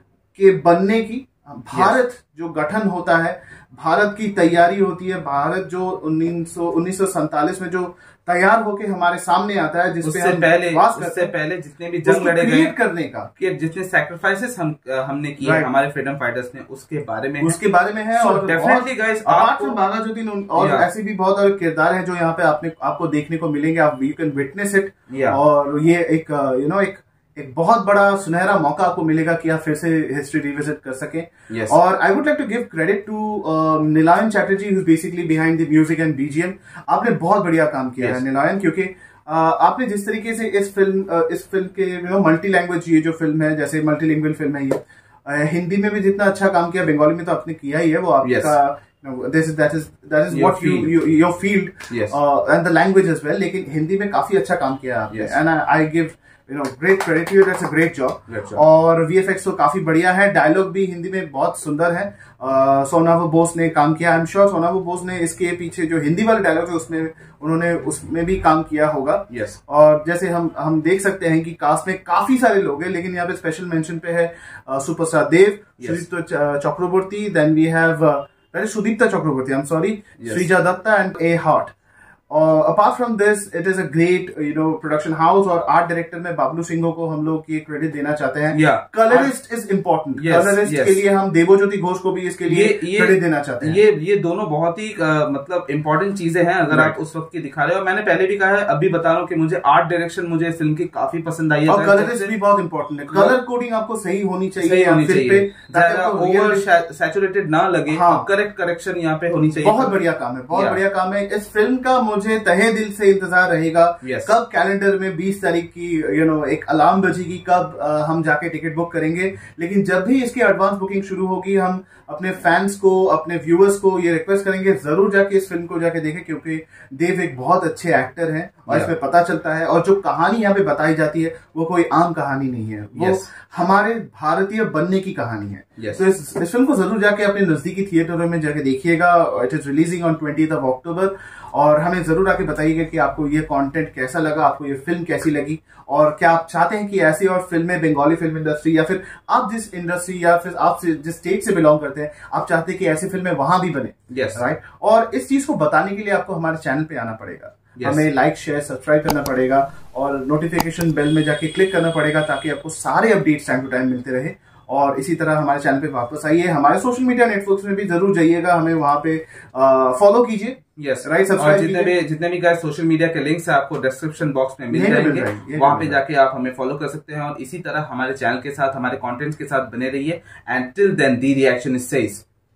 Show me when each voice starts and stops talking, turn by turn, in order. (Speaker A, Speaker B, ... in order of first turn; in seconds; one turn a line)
Speaker A: 0.3-11.3
Speaker B: 1.7-2.0
Speaker B: 10.0-12.8
Speaker A: 12.0-13.3
Speaker B: 13.4-17.6
Speaker A: 15.4-15.7
Speaker A: 17.4-81.7
Speaker B: 18.1-19.8
Speaker B: 20.6-20.9
Speaker B: 25.1-25.4
Speaker B: 31.5-31.8
Speaker B: 48.2-48.6
Speaker B: 50.3-51.0
Speaker B: 51.9-52.2
Speaker B: 55.1-55.4
Speaker B: 58.3-58.6
Speaker B: 69.3-69.6
Speaker B: 80.2-80.5
Speaker A: 82.3-93.8
Speaker B: 88.5-89.3
Speaker B: 90.2-91.0
Speaker B: 92.5-102.3
Speaker A: 96.7-97.0
Speaker A: 101.7-106.6
Speaker B: 103.1-103.4
Speaker B: 104.6-110.0
Speaker A: 107.9-108.3
Speaker A: 109.6-171.9
Speaker B: 110.5-110.8
Speaker B: 114.0-114.3
Speaker B: 132.9-133.3
Speaker B: 154.1-154.4
Speaker B: 157.8-158.1
Speaker B: 170.8-182.2
Speaker A: 174.7-176.0